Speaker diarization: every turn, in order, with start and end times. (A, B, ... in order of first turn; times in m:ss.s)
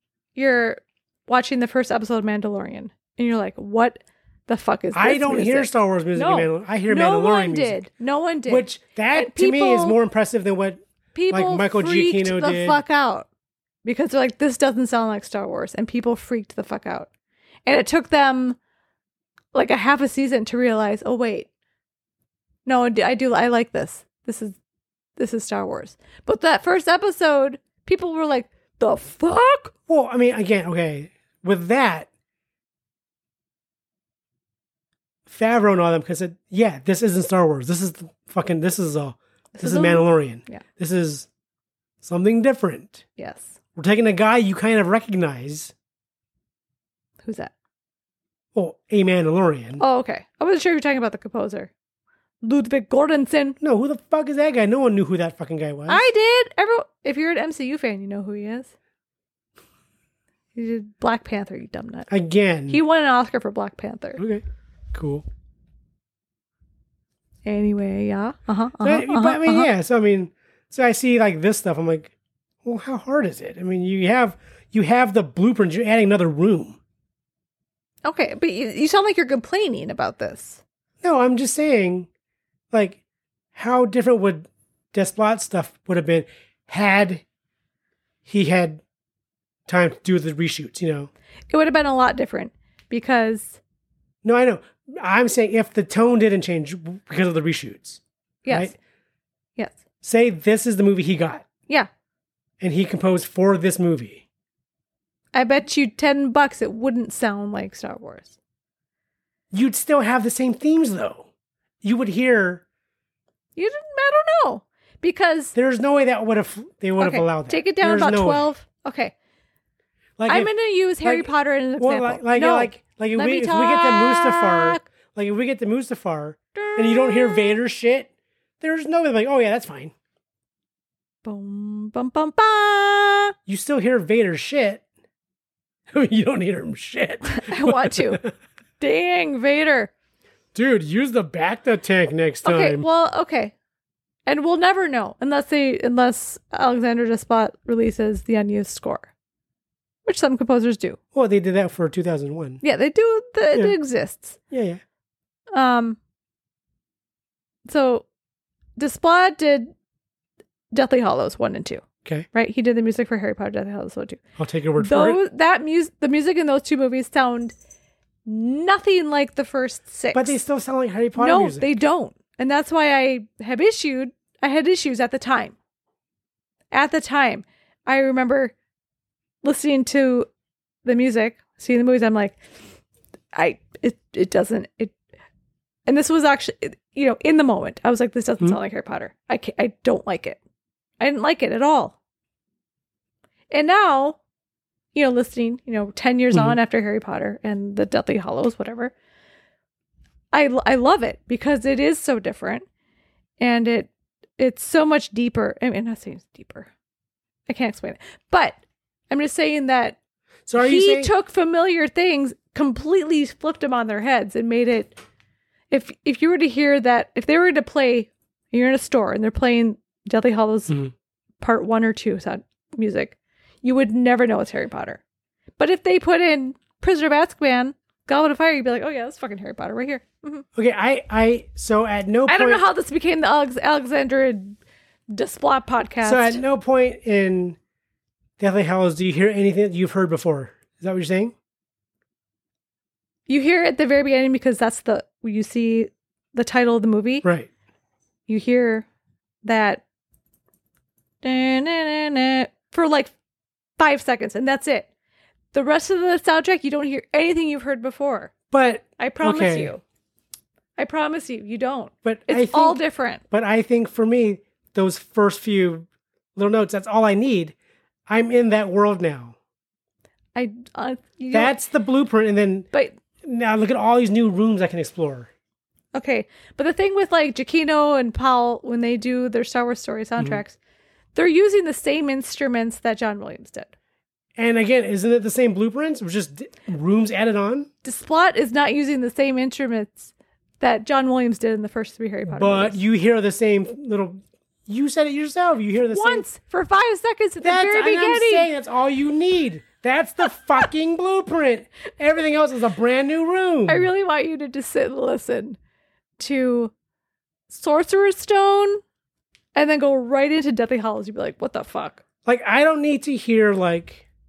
0:00.4-0:10.0 A
0:04.9-0:07.9 B
0:08.5-0:12.8 B
0:11.2-0:13.3 A
0:13.8-0:17.1 A
0:17.7-0:18.6 A
0:19.5-0:21.5 A
0:22.7-0:24.6 A
0:25.2-0:29.7 A
0:29.9-0:32.1 B
0:35.3-0:41.3 B
0:39.6-0:40.6 A
0:42.0-0:43.0 B
0:43.2-0:43.6 A
0:43.8-0:45.7 B
0:47.2-0:47.5 A
0:48.5-0:49.8 B
0:49.8-0:51.7 A
0:52.4-0:53.6 A
0:53.6-0:56.0 B
0:55.9-0:58.7 A
1:00.6-1:02.1 A
1:02.1-1:02.8 B
1:02.7-1:04.2 A
1:04.2-1:05.3 B
1:07.4-1:09.7 A
1:08.8-1:12.1 B
1:12.6-1:16.8 B
1:18.0-1:20.6 A
1:21.0-1:22.1 B
1:22.7-1:23.0 B
1:23.6-1:27.2 B
1:28.2-1:28.8 B
1:29.7-1:31.1 B
1:31.5-1:33.6 A
1:34.2-1:38.8 B
1:38.4-1:38.7 A
1:40.0-1:41.5 B
1:42.6-1:44.2 B
1:45.3-1:48.4 A
1:49.5-1:51.3 B
1:51.8-1:52.6 B
1:53.6-1:55.5 A
1:55.5-1:58.5 B
1:57.0-1:59.1 A
2:00.2-2:09.9 B
2:00.3-2:04.8 A
2:06.6-2:07.6 A
2:11.2-2:13.3 A
2:13.5-2:14.8 B
2:15.9-2:18.3 B
2:17.3-2:18.2 A
2:18.8-2:19.9 A
2:20.5-2:22.9 B
2:22.4-2:23.5 A
2:24.3-2:29.1 A
2:30.0-2:31.0 A
2:31.1-2:32.6 B
2:32.6-2:34.4 A
2:34.5-2:34.8 B
2:35.5-2:36.0 A
2:37.7-2:38.1 A
2:38.8-2:39.7 A
2:40.7-2:44.2 A
2:44.4-2:45.2 B
2:44.8-2:47.5 A
2:48.3-2:50.4 A
2:50.1-2:51.7 B
2:51.2-2:55.6 A
2:56.7-2:58.5 A
2:59.4-3:00.3 A
3:00.8-3:02.4 A
3:03.3-3:05.0 A
3:05.9-3:10.4 A
3:11.0-3:12.0 A
3:13.5-3:14.2 A
3:14.9-3:18.9 A
3:20.3-3:22.6 A
3:23.4-3:26.7 A
3:27.5-3:30.0 A
3:30.5-3:31.1 B
3:30.6-3:35.0 A
3:35.7-3:40.8 A
3:41.4-3:45.0 A
3:45.6-3:50.4 A
3:50.6-3:52.7 B
3:52.3-3:54.6 A
3:55.1-3:56.4 A
3:56.0-3:57.6 B
3:58.4-4:01.3 B
4:03.3-4:07.3 A
4:07.2-4:07.5 B
4:08.3-4:08.9 A
4:09.4-4:09.8 A
4:11.2-4:13.1 A
4:13.8-4:14.9 A
4:15.5-4:18.3 A
4:18.5-4:19.7 B
4:19.0-4:19.8 A
4:20.8-4:23.2 A
4:22.0-4:27.6 B
4:28.1-4:29.4 B
4:30.4-4:31.6 A
4:31.3-4:32.7 B
4:33.2-4:35.3 B
4:36.0-4:40.6 A
4:41.2-4:43.7 A
4:44.4-4:47.7 B
4:47.8-4:52.8 A
4:52.3-4:56.3 B
4:55.9-4:58.5 A
4:57.4-5:03.9 B
5:03.7-5:05.6 A
5:06.2-5:06.7 A
5:07.5-5:08.8 A
5:09.6-5:12.0 A
5:12.2-5:14.1 B